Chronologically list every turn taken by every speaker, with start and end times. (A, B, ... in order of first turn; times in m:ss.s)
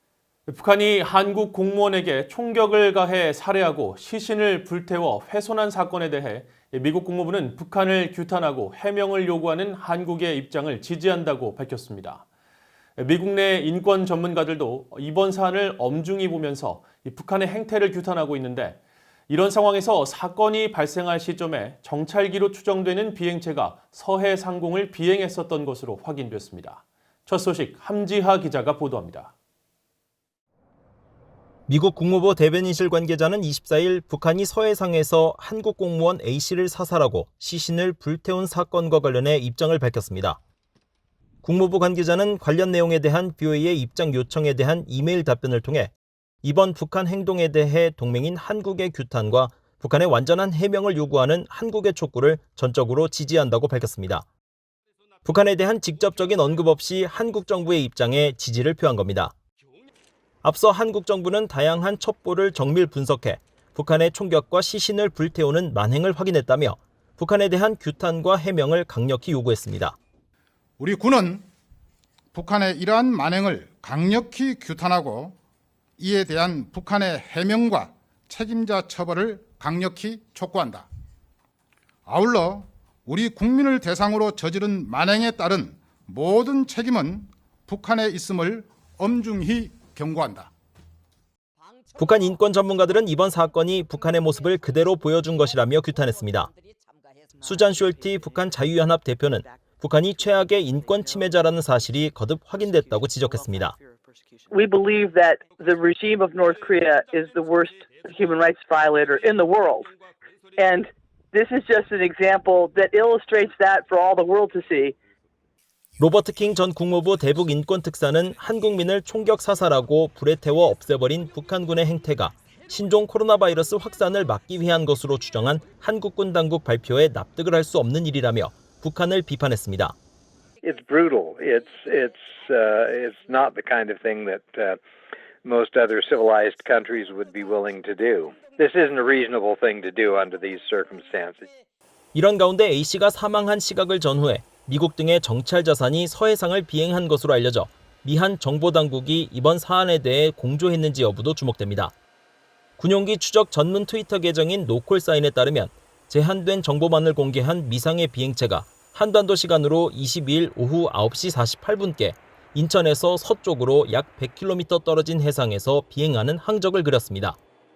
0:00.5-0:12.2 A
0:13.0-0:29.3 A
0:31.7-0:40.4 B
0:41.4-0:54.2 B
0:55.2-0:59.3 B
1:00.4-1:10.0 B
1:10.8-1:11.4 C
1:12.3-1:15.4 C
1:16.0-1:20.8 C
1:22.0-1:30.5 C
1:32.0-1:36.5 B
1:37.4-1:43.8 B
1:44.5-1:49.9 D
1:50.6-1:55.0 D
1:56.0-2:09.9 B
2:10.6-2:14.8 E
2:15.4-2:21.5 E
2:22.1-2:31.9 B
2:32.8-2:47.4 B